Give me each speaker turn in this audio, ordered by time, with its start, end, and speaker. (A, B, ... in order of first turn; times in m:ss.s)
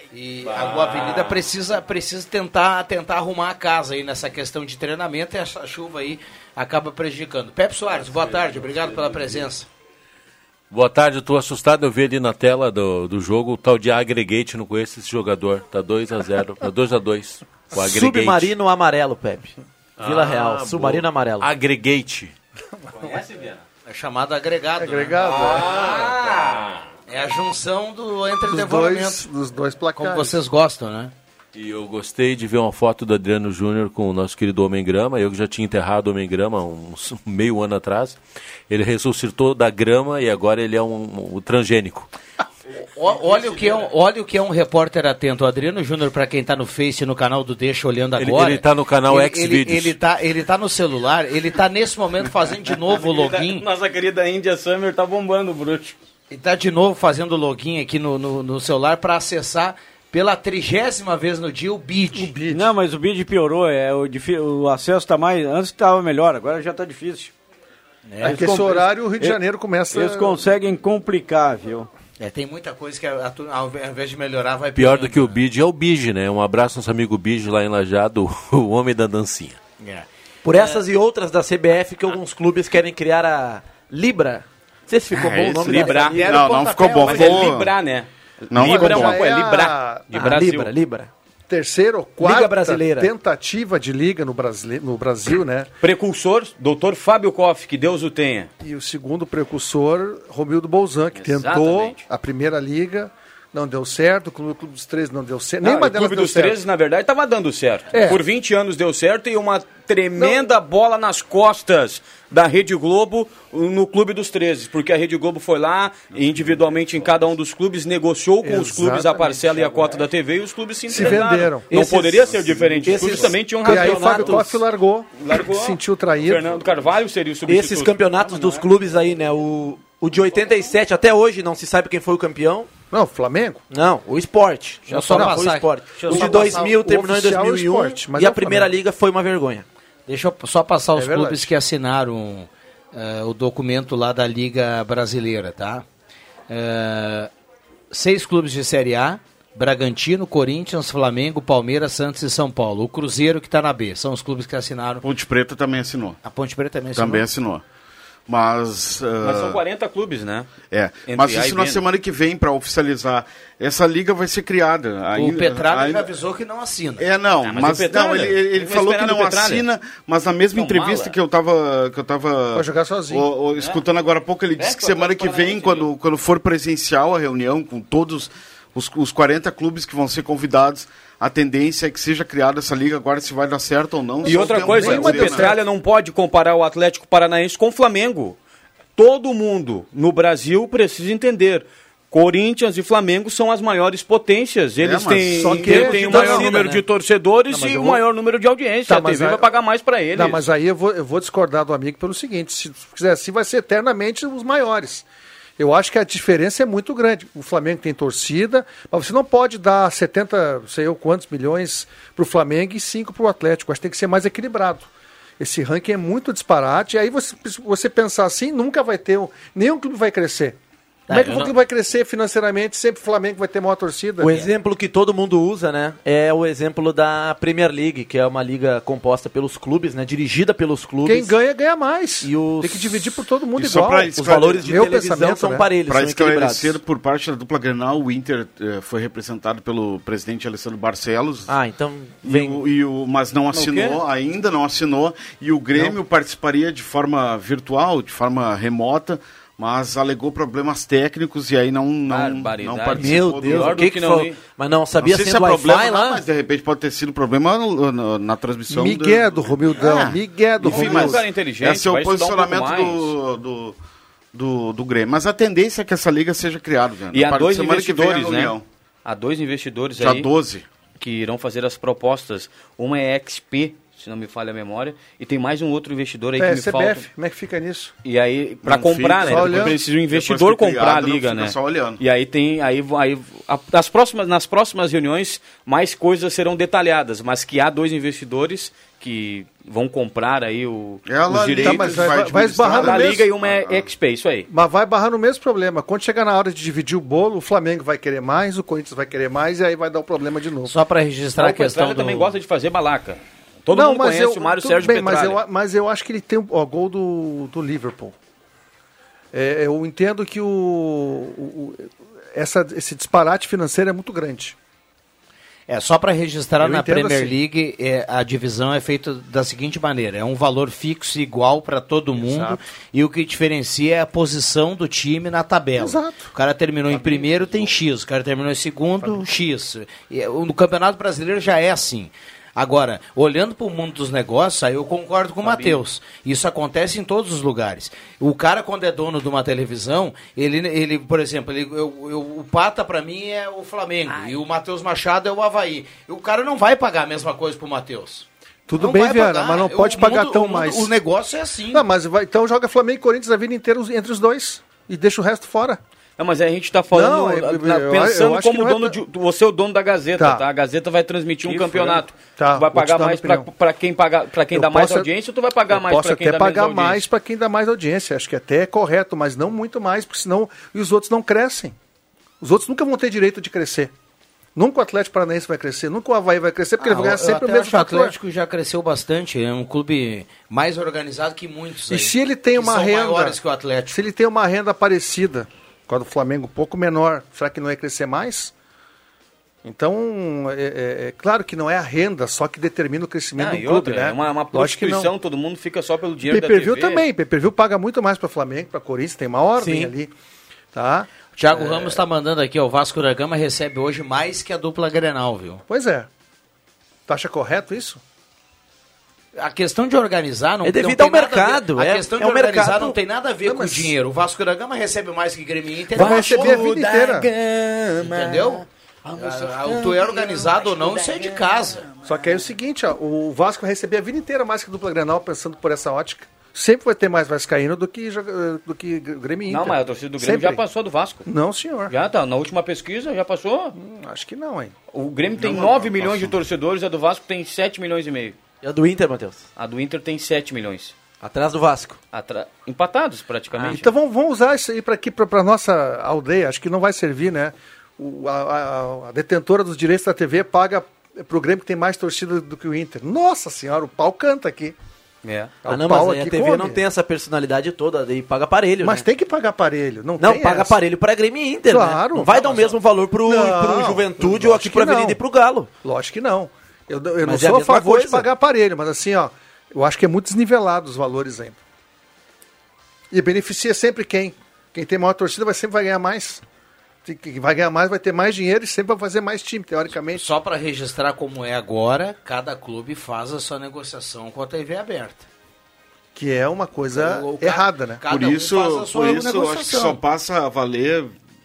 0:00.1-0:09.7 A
0:10.7-0:18.5 B
0:17.7-0:21.5 C
0:20.0-0:22.3 B
0:22.8-0:23.2 D
0:23.0-0:23.6 E
0:23.9-0:25.7 A
0:24.8-0:25.8 D
0:25.2-0:26.6 E
0:25.8-0:26.6 B
0:27.1-0:29.3 A
0:28.5-0:30.4 D
0:30.0-0:31.1 A
0:31.5-0:38.2 B
0:38.7-0:42.1 B
0:42.9-0:53.6 A
0:48.2-0:50.0 B
0:52.8-0:56.0 E
0:56.3-1:02.3 A
1:02.1-1:02.7 D
1:02.5-1:07.3 F
1:08.1-1:08.7 A
1:08.2-1:09.4 F
1:08.2-1:10.4 D
1:09.9-1:11.9 F
1:12.2-1:15.4 A
1:14.8-1:19.6 B
1:19.8-1:20.0 A
1:20.4-1:26.4 C
1:25.1-1:27.7 G
1:25.5-1:26.2 E
1:25.9-1:27.5 A
1:27.0-1:30.7 E
1:28.5-1:29.2 G
1:28.6-1:30.1 D
1:30.1-1:31.1 C
1:31.5-1:35.7 D
1:32.2-1:33.1 C
1:35.8-1:38.5 E
1:38.6-1:46.6 D
1:41.2-1:42.0 E
1:45.6-2:04.6 E
1:47.9-1:48.2 D
1:50.2-1:50.5 D
1:58.4-1:59.7 D
2:00.9-2:01.7 D
2:01.7-2:04.6 C
2:02.8-2:06.5 D
2:05.2-2:08.0 E
2:07.5-2:12.7 C
2:12.9-2:13.6 D
2:13.7-2:19.6 C
2:14.9-2:16.7 A
2:15.1-2:15.4 D
2:16.1-2:18.7 D
2:20.1-2:25.8 A
2:20.9-2:21.5 D
2:26.5-2:27.3 A
2:27.9-2:35.0 A
2:35.0-2:36.2 G
2:36.2-2:37.2 A
2:36.9-2:37.6 G
2:38.3-2:39.6 G
2:39.2-2:40.5 E
2:40.7-2:46.1 G
2:41.0-2:41.8 E
2:45.1-2:47.0 A
2:47.0-3:05.5 G
2:47.4-2:49.6 E
2:50.5-2:51.2 E
2:52.5-2:53.3 D
2:53.6-2:53.8 E
2:54.6-2:55.9 E
3:04.2-3:05.6 D
3:04.2-3:08.4 E
3:09.0-3:20.4 E
3:14.8-3:15.6 G
3:15.3-3:16.7 D
3:15.6-3:16.8 C
3:17.5-3:18.0 D
3:18.9-3:19.5 D
3:20.1-3:25.0 D
3:25.6-3:40.6 D
3:41.1-3:41.5 A
3:41.1-3:44.5 D
3:44.2-3:51.3 C
3:51.0-3:55.7 D
3:52.2-3:53.1 C
3:53.5-3:54.9 G
3:54.1-3:56.8 C
3:55.9-4:01.5 G
4:01.5-4:02.6 C
4:02.2-4:13.8 G
4:03.5-4:04.0 E
4:12.1-4:14.4 E
4:12.9-4:16.2 C
4:15.0-4:23.8 G
4:18.7-4:21.2 D
4:20.6-4:23.1 E
4:24.3-4:28.6 G
4:27.1-4:30.3 E
4:30.0-4:30.6 G
4:31.0-4:37.1 E
4:36.4-4:37.9 D
4:38.0-4:52.2 E
4:38.6-4:42.0 G
4:39.2-4:39.8 D
4:51.1-4:53.9 G
4:51.5-4:53.2 D
4:52.7-4:54.5 E
4:54.5-5:00.7 D
5:00.6-5:02.3 A
5:01.4-5:05.4 E
5:03.7-5:08.2 D
5:09.3-5:14.6 D
5:15.7-5:48.2 A
5:16.6-5:17.4 D
5:22.2-5:22.6 D
5:25.8-5:26.3 D
5:35.4-5:35.8 E
5:48.7-5:50.9 D
5:48.8-5:51.8 A
5:51.7-5:55.8 D
5:56.2-6:07.0 E
5:56.9-5:59.0 D
6:00.2-6:00.4 D
6:01.4-6:02.0 F
6:02.4-6:03.5 D
6:04.5-6:05.1 D
6:05.7-6:11.7 D
6:12.4-6:13.9 D
6:14.5-6:18.2 D
6:16.8-6:24.0 A
6:21.9-6:23.4 D
6:23.9-6:28.5 D
6:29.6-6:35.1 D
6:33.4-6:37.0 E
6:36.2-6:40.1 D
6:39.6-6:39.9 C
6:40.7-6:42.0 D
6:41.3-6:45.6 A
6:45.7-6:46.1 D
6:47.1-6:48.0 D
6:49.4-6:56.6 A
6:50.6-6:53.0 C
6:53.4-6:53.9 D
6:55.9-6:57.3 D
6:56.0-6:58.5 E
6:58.0-7:01.8 A
6:59.4-7:00.0 E
7:02.0-7:10.6 D
7:09.5-7:11.2 E
7:11.2-7:11.9 D
7:11.9-7:13.7 E
7:13.7-7:14.7 D
7:14.9-7:18.4 E
7:15.3-7:16.4 G
7:18.6-7:19.4 C
7:19.6-7:20.9 E
7:21.2-7:22.0 C
7:22.1-7:23.9 E
7:23.6-7:34.8 D
7:35.2-7:35.5 E
7:35.6-7:36.8 D
7:35.6-7:39.0 C
7:38.8-7:40.8 D
7:40.2-7:45.7 C
7:41.7-7:45.2 D
7:45.8-7:51.6 D
7:47.2-7:48.3 C
7:53.1-7:56.4 D
7:57.0-8:00.3 D
8:00.2-8:05.2 A
8:06.1-8:08.0 D
8:06.9-8:10.0 A
8:08.1-8:11.1 G